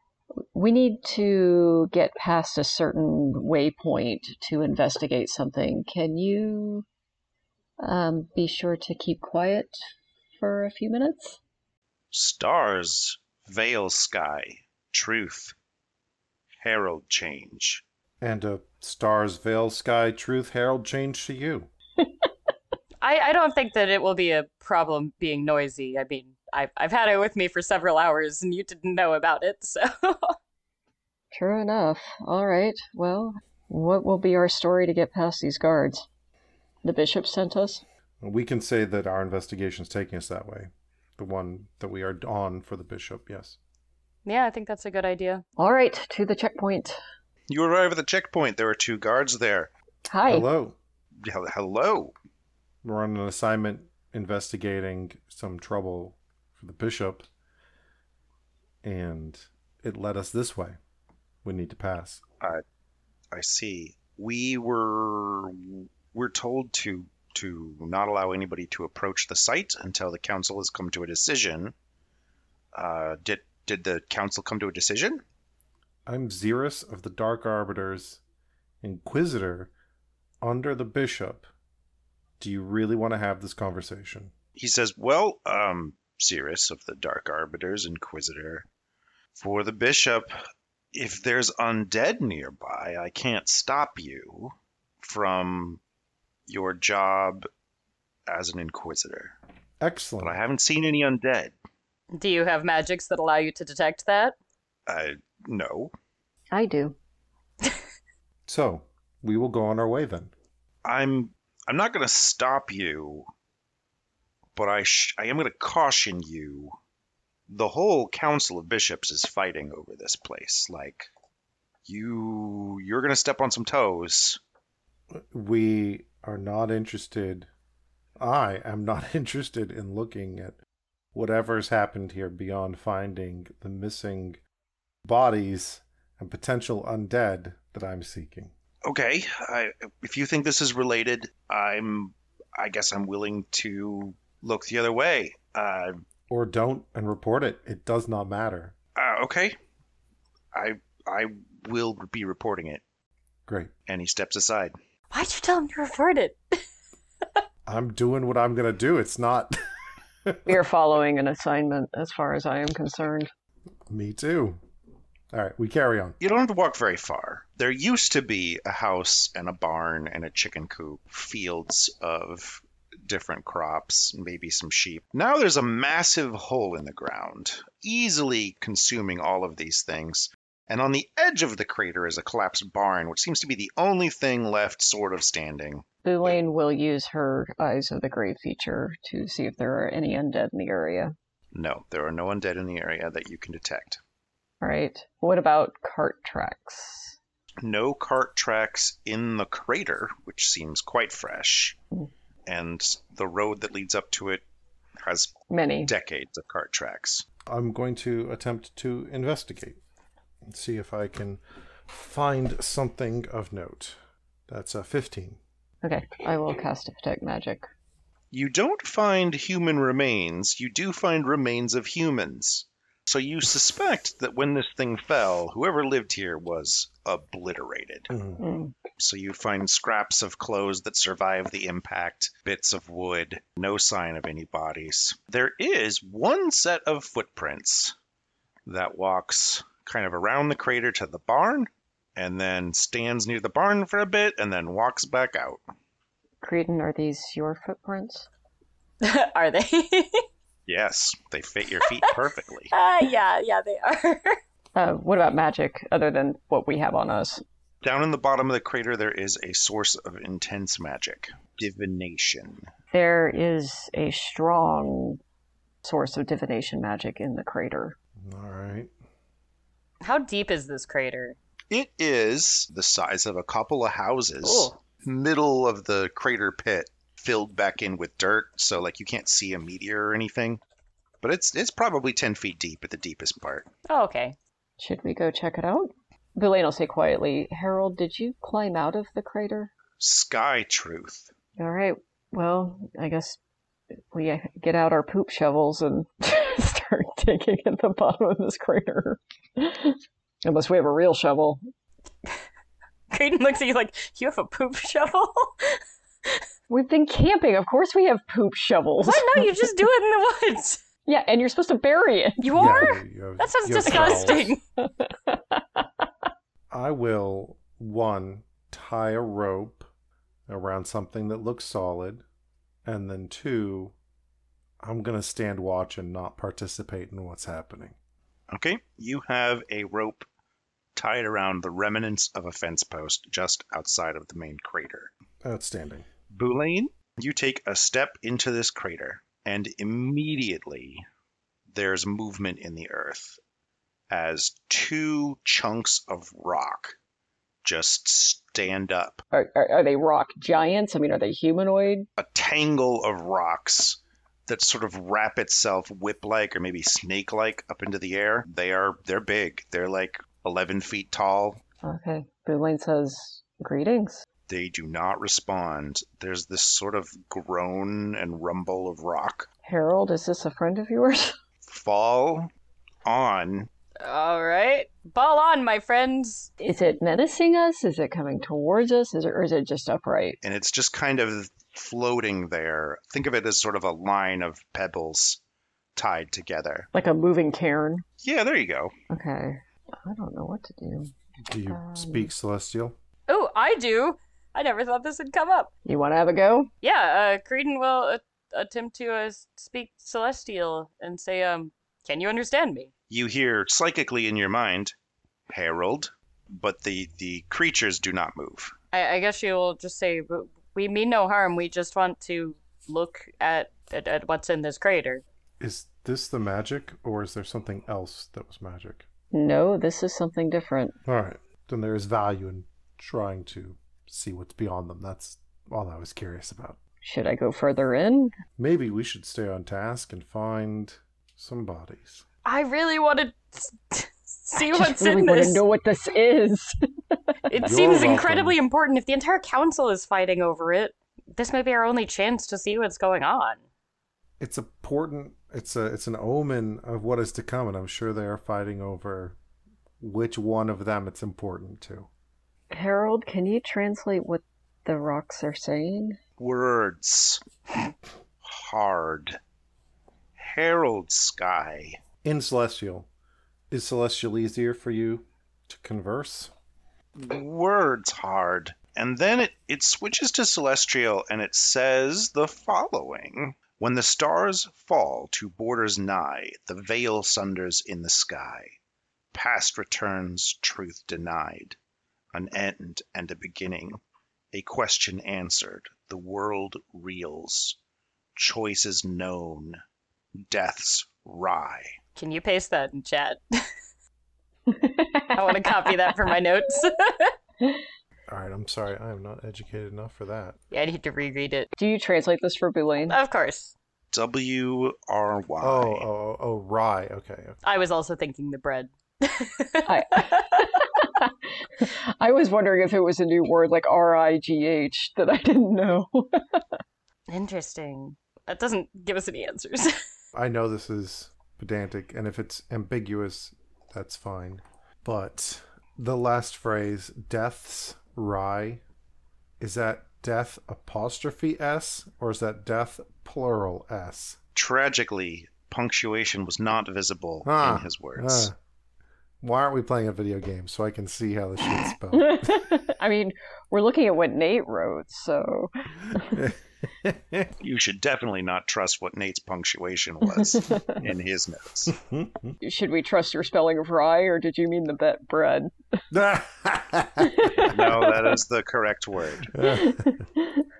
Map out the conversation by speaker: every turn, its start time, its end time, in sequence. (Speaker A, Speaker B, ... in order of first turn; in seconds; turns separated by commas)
Speaker A: 0.4-6.8, Speaker A: 7.8-9.7, Speaker A: 10.4-11.4, Speaker B: 12.1-15.5, Speaker B: 16.6-17.8, Speaker C: 18.2-21.7, Speaker D: 23.0-30.3, Speaker A: 31.3-36.1, Speaker A: 36.8-37.8, Speaker C: 38.2-43.6, Speaker D: 44.2-45.4, Speaker A: 45.6-47.0, Speaker B: 47.5-49.7, Speaker A: 50.1-50.5, Speaker C: 50.2-50.8, Speaker B: 51.2-52.1, Speaker C: 52.8-57.3, Speaker C: 58.8-60.8, Speaker C: 61.4-62.2, Speaker B: 63.3-71.7, Speaker B: 72.7-75.2, Speaker C: 76.0-78.2, Speaker C: 78.8-79.7, Speaker C: 80.4-81.5, Speaker C: 82.4-84.3, Speaker B: 84.5-88.7, Speaker B: 89.3-90.3, Speaker B: 90.9-95.8, Speaker B: 96.5-97.5, Speaker B: 98.3-99.3, Speaker C: 99.8-100.4, Speaker B: 100.2-101.5, Speaker D: 102.1-104.3, Speaker B: 104.9-105.9, Speaker A: 106.5-107.0, Speaker C: 108.5-110.3, Speaker B: 110.8-113.3, Speaker B: 114.5-116.8, Speaker B: 117.5-121.1, Speaker B: 121.8-124.4, Speaker C: 125.1-127.5, Speaker C: 128.2-130.6, Speaker C: 131.1-134.4, Speaker C: 135.0-138.5, Speaker B: 138.8-146.0, Speaker C: 146.3-148.7, Speaker B: 148.9-149.6, Speaker B: 150.5-152.8, Speaker C: 153.5-153.7, Speaker B: 153.9-154.7, Speaker D: 155.1-156.6, Speaker C: 157.7-159.6, Speaker C: 160.2-160.6, Speaker A: 160.4-163.3, Speaker C: 163.9-164.6, Speaker C: 165.3-166.2, Speaker B: 166.2-185.8, Speaker A: 186.0-191.1, Speaker B: 191.5-194.0, Speaker A: 194.6-197.2, Speaker B: 197.6-201.8, Speaker B: 202.4-204.4, Speaker B: 205.0-205.3, Speaker A: 205.5-205.9, Speaker B: 205.8-207.2, Speaker C: 207.5-209.8, Speaker C: 210.4-214.0, Speaker C: 214.5-215.4, Speaker A: 215.8-217.7, Speaker B: 218.3-228.1, Speaker C: 228.1-228.4, Speaker A: 228.4-228.7, Speaker B: 229.0-237.9, Speaker B: 238.7-245.6, Speaker A: 246.4-248.3, Speaker D: 249.0-250.2, Speaker B: 250.7-252.7, Speaker D: 252.7-254.4, Speaker A: 254.8-257.4, Speaker B: 257.8-262.7, Speaker A: 262.9-265.2, Speaker A: 265.8-267.9, Speaker C: 268.2-268.9, Speaker D: 270.0-271.4, Speaker B: 271.7-280.6, Speaker D: 274.4-274.8, Speaker B: 281.2-283.7, Speaker D: 283.9-284.4, Speaker A: 284.8-289.7, Speaker B: 290.0-291.3, Speaker A: 291.6-293.4, Speaker A: 294.1-301.6, Speaker D: 303.1-306.4, Speaker A: 306.7-309.7, Speaker D: 309.0-310.8, Speaker A: 311.1-312.6, Speaker D: 312.4-314.6, Speaker C: 312.5-314.5, Speaker A: 313.9-315.8, Speaker C: 316.7-319.9, Speaker C: 320.5-322.2, Speaker C: 322.8-323.9, Speaker C: 324.8-327.9, Speaker B: 328.5-330.2, Speaker B: 330.9-335.1, Speaker C: 335.4-336.1, Speaker B: 336.3-341.0, Speaker B: 341.7-343.4, Speaker B: 344.1-347.0, Speaker B: 347.6-349.2, Speaker A: 349.3-352.1, Speaker B: 352.2-361.6, Speaker A: 361.8-364.2, Speaker B: 364.5-369.5, Speaker A: 369.6-371.4, Speaker B: 371.6-372.5, Speaker B: 373.0-373.7, Speaker D: 374.0-376.5, Speaker A: 376.6-380.4, Speaker B: 380.4-385.4, Speaker B: 385.9-386.9, Speaker A: 386.9-388.0, Speaker B: 388.2-388.9, Speaker A: 389.1-391.1, Speaker C: 391.4-392.9, Speaker A: 391.7-392.3, Speaker D: 393.3-395.7, Speaker A: 395.9-396.7, Speaker D: 396.8-402.9, Speaker B: 403.1-404.9, Speaker B: 405.5-408.7, Speaker D: 408.9-415.2, Speaker C: 415.6-419.1, Speaker A: 419.3-420.9, Speaker C: 421.0-426.8, Speaker A: 427.0-428.3, Speaker C: 428.6-432.2, Speaker D: 432.4-435.6, Speaker A: 434.5-437.7, Speaker D: 437.5-443.6, Speaker C: 437.6-438.6, Speaker C: 444.4-449.4, Speaker C: 450.0-452.1, Speaker A: 452.7-456.2, Speaker B: 456.4-457.4, Speaker B: 458.4-459.4, Speaker B: 460.4-462.0, Speaker C: 462.2-463.1, Speaker C: 463.7-466.5, Speaker B: 467.1-478.7, Speaker B: 479.3-481.8, Speaker B: 482.3-484.0, Speaker B: 484.5-487.8, Speaker B: 488.4-489.8, Speaker B: 490.5-491.9, Speaker D: 492.1-493.7, Speaker A: 494.7-496.1, Speaker D: 495.3-497.3, Speaker C: 498.3-500.6, Speaker D: 500.7-501.7, Speaker A: 501.8-503.2, Speaker D: 503.1-503.7, Speaker B: 504.1-506.1, Speaker C: 505.6-507.6, Speaker D: 507.6-510.7, Speaker A: 509.9-516.6, Speaker D: 517.3-520.0, Speaker C: 520.3-528.8, Speaker C: 529.6-534.4, Speaker B: 534.5-538.5, Speaker C: 537.4-538.5, Speaker C: 539.4-542.8, Speaker A: 542.1-546.5, Speaker C: 546.1-547.5, Speaker B: 547.6-551.9, Speaker A: 550.4-551.0, Speaker C: 551.9-552.5, Speaker A: 552.6-555.7, Speaker C: 556.1-557.7, Speaker A: 557.2-558.1, Speaker B: 557.6-559.6, Speaker C: 559.5-560.0, Speaker A: 559.6-560.6